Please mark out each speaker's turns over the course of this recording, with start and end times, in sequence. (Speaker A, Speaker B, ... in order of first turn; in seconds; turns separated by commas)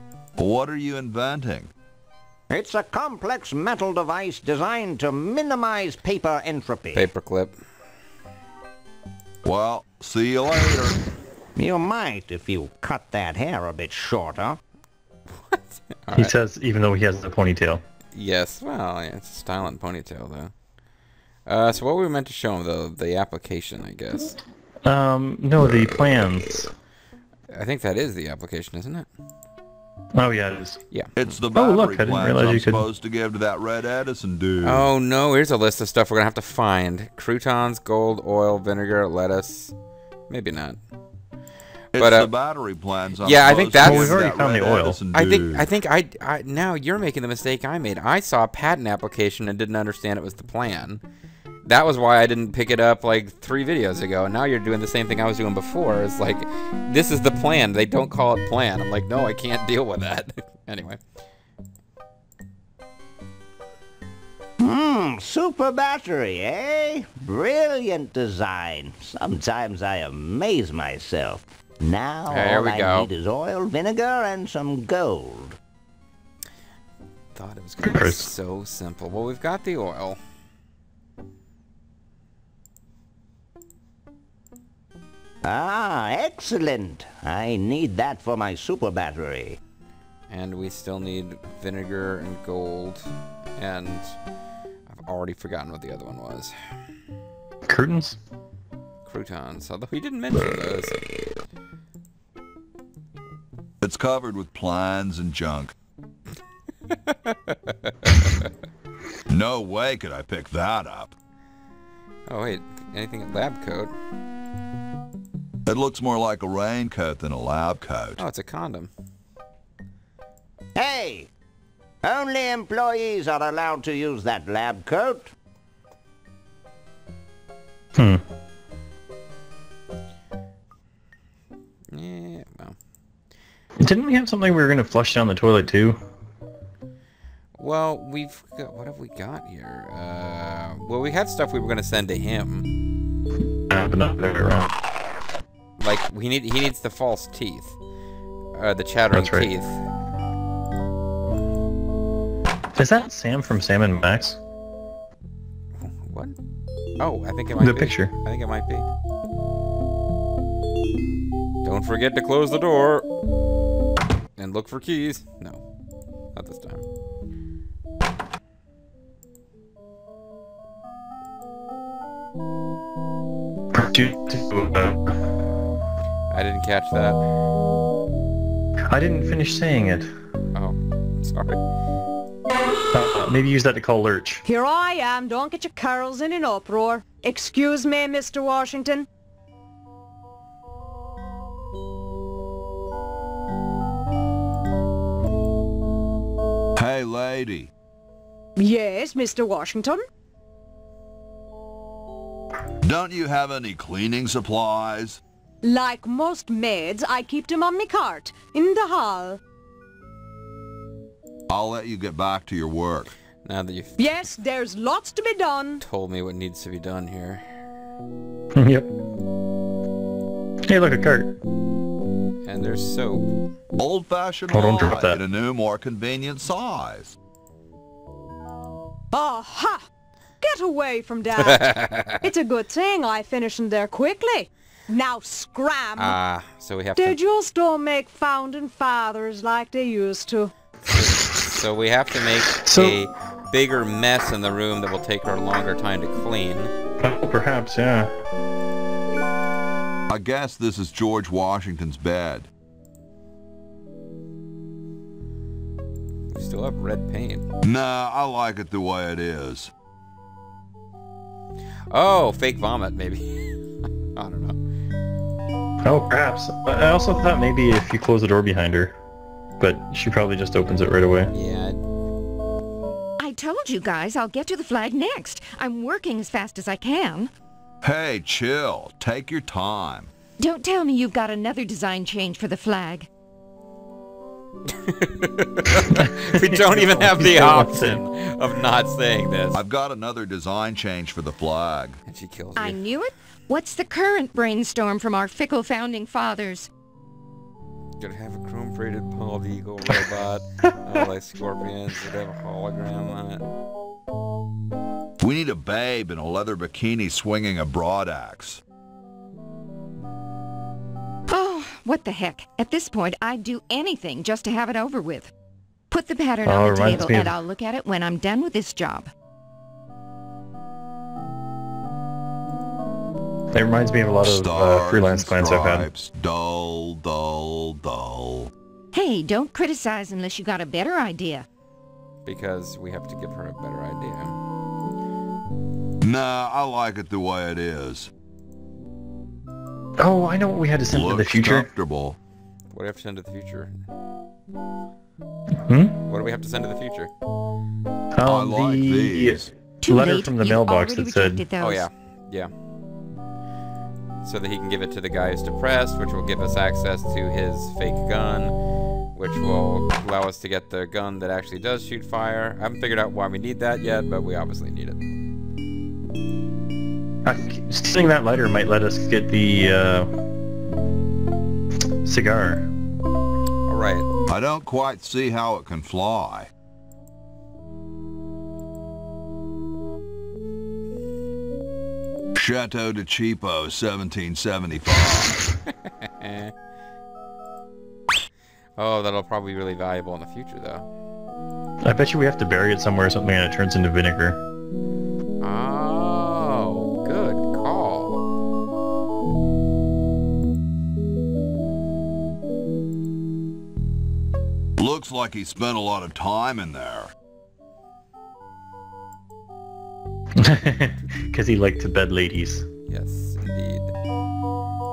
Speaker A: 0.4-1.7, Speaker B: 2.5-7.1, Speaker C: 6.9-7.5, Speaker A: 9.4-11.0, Speaker B: 11.6-14.6, Speaker C: 15.3-16.3, Speaker D: 16.1-17.8, Speaker C: 18.1-20.5, Speaker C: 21.5-24.4, Speaker D: 24.9-26.7, Speaker C: 27.5-29.1, Speaker D: 30.1-30.8, Speaker A: 31.2-34.9, Speaker D: 31.5-32.9, Speaker C: 34.6-39.7, Speaker C: 40.3-40.8, Speaker A: 41.9-45.7, Speaker C: 42.0-42.3, Speaker C: 43.2-44.2, Speaker D: 43.7-45.0, Speaker C: 45.1-51.0, Speaker C: 51.6-61.0, Speaker B: 64.6-75.6, Speaker C: 72.3-73.1, Speaker C: 77.3-80.2, Speaker D: 77.8-78.3, Speaker B: 85.4-89.6, Speaker C: 90.3-94.2, Speaker C: 94.9-96.5, Speaker D: 97.7-98.2, Speaker C: 99.1-101.0, Speaker A: 103.8-105.7, Speaker C: 106.9-108.5, Speaker A: 109.3-111.1, Speaker C: 112.3-113.9, Speaker A: 115.7-118.2, Speaker C: 118.2-118.9, Speaker B: 120.8-121.3, Speaker B: 122.0-125.3, Speaker D: 128.0-128.2, Speaker C: 131.9-132.8, Speaker D: 133.8-136.0, Speaker C: 137.6-142.7, Speaker D: 143.7-144.7, Speaker C: 145.8-147.8, Speaker C: 148.6-149.8, Speaker D: 149.1-149.5, Speaker D: 152.8-154.4, Speaker C: 155.8-156.4, Speaker C: 157.0-158.9, Speaker D: 157.6-158.1, Speaker C: 161.6-163.1, Speaker C: 164.4-165.6, Speaker C: 166.3-166.8, Speaker D: 173.7-175.2, Speaker C: 176.3-177.2, Speaker D: 178.9-180.1, Speaker C: 180.5-181.6, Speaker D: 182.9-184.4, Speaker E: 184.5-189.1, Speaker A: 196.8-197.7, Speaker E: 198.6-200.0, Speaker A: 202.8-205.2, Speaker E: 205.6-209.4, Speaker A: 211.5-213.2, Speaker C: 213.4-214.0, Speaker E: 214.0-215.8, Speaker C: 215.8-217.4, Speaker D: 218.6-218.9, Speaker D: 220.7-221.4, Speaker C: 222.4-223.3, Speaker A: 223.8-227.2, Speaker D: 224.5-225.2, Speaker E: 229.1-229.9, Speaker E: 230.4-236.2, Speaker C: 231.4-232.2, Speaker C: 236.0-237.2, Speaker E: 237.0-240.5, Speaker C: 240.8-246.7, Speaker D: 242.6-243.0, Speaker D: 247.0-248.1, Speaker A: 250.1-252.5, Speaker C: 256.3-257.5, Speaker A: 257.6-259.7, Speaker C: 261.9-263.6, Speaker C: 264.1-264.6, Speaker D: 265.8-269.0, Speaker D: 269.6-271.3, Speaker C: 271.3-271.8, Speaker F: 273.2-277.3, Speaker A: 277.8-280.1, Speaker F: 280.4-283.1, Speaker C: 284.7-289.6, Speaker D: 285.9-288.0, Speaker A: 289.6-292.0, Speaker C: 292.1-292.8, Speaker F: 292.6-296.7, Speaker C: 298.0-303.4, Speaker A: 305.2-308.6, Speaker F: 311.3-315.3, Speaker F: 315.9-319.1, Speaker D: 316.4-317.4, Speaker D: 323.5-325.9, Speaker A: 324.2-328.5, Speaker F: 328.9-331.5, Speaker C: 332.3-334.4, Speaker A: 336.0-338.1, Speaker D: 340.0-341.7, Speaker A: 340.9-342.2, Speaker C: 342.7-343.8, Speaker D: 345.6-346.0, Speaker C: 346.1-347.1, Speaker D: 348.1-351.5, Speaker A: 348.2-349.5, Speaker F: 349.8-351.9, Speaker C: 351.6-352.5, Speaker C: 354.2-358.6, Speaker C: 359.1-365.0, Speaker D: 367.2-370.1, Speaker D: 372.0-372.7, Speaker C: 373.7-374.1, Speaker A: 374.3-376.5, Speaker A: 382.4-385.5, Speaker C: 385.9-386.5, Speaker C: 388.8-390.9, Speaker D: 391.8-394.4, Speaker C: 395.4-398.2, Speaker A: 404.8-407.1, Speaker D: 410.4-412.7, Speaker C: 412.9-413.9